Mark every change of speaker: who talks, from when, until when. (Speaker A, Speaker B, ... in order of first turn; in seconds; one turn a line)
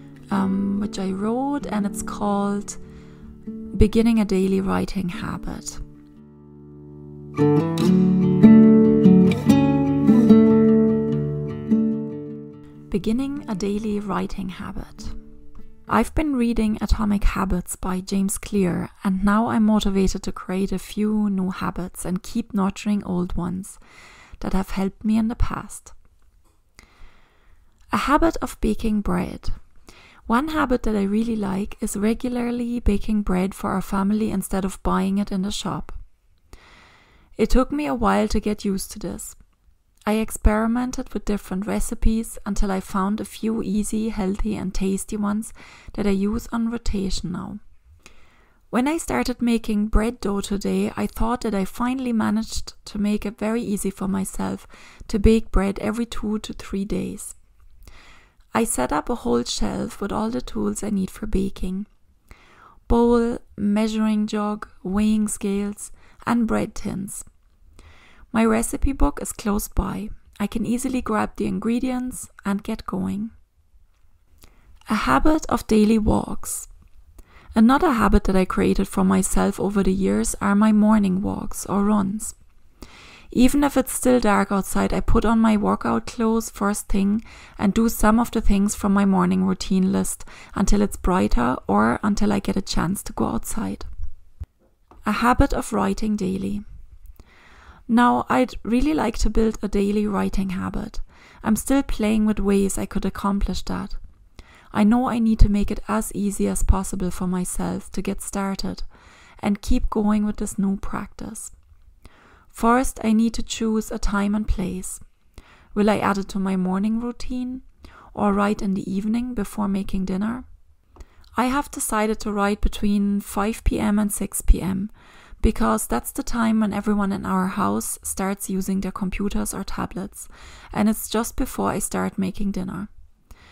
Speaker A: 0.3-2.8
Speaker A: 3.7-5.8
Speaker A: 12.9-15.2
Speaker A: 15.9-23.8
Speaker A: 24.4-25.9
Speaker A: 27.9-29.6
Speaker A: 30.2-36.0
Speaker A: 37.4-39.4
Speaker A: 40.0-47.6
Speaker A: 48.7-57.4
Speaker A: 58.5-61.9
Speaker A: 62.9-67.3
Speaker A: 68.3-73.3
Speaker A: 74.9-76.7
Speaker A: 77.5-82.4
Speaker A: 83.3-93.9
Speaker A: 95.0-96.6
Speaker A: 97.9-104.0
Speaker A: 104.7-108.9
Speaker A: 109.4-111.5
Speaker A: 112.5-115.0
Speaker A: 115.7-120.5
Speaker A: 121.3-132.9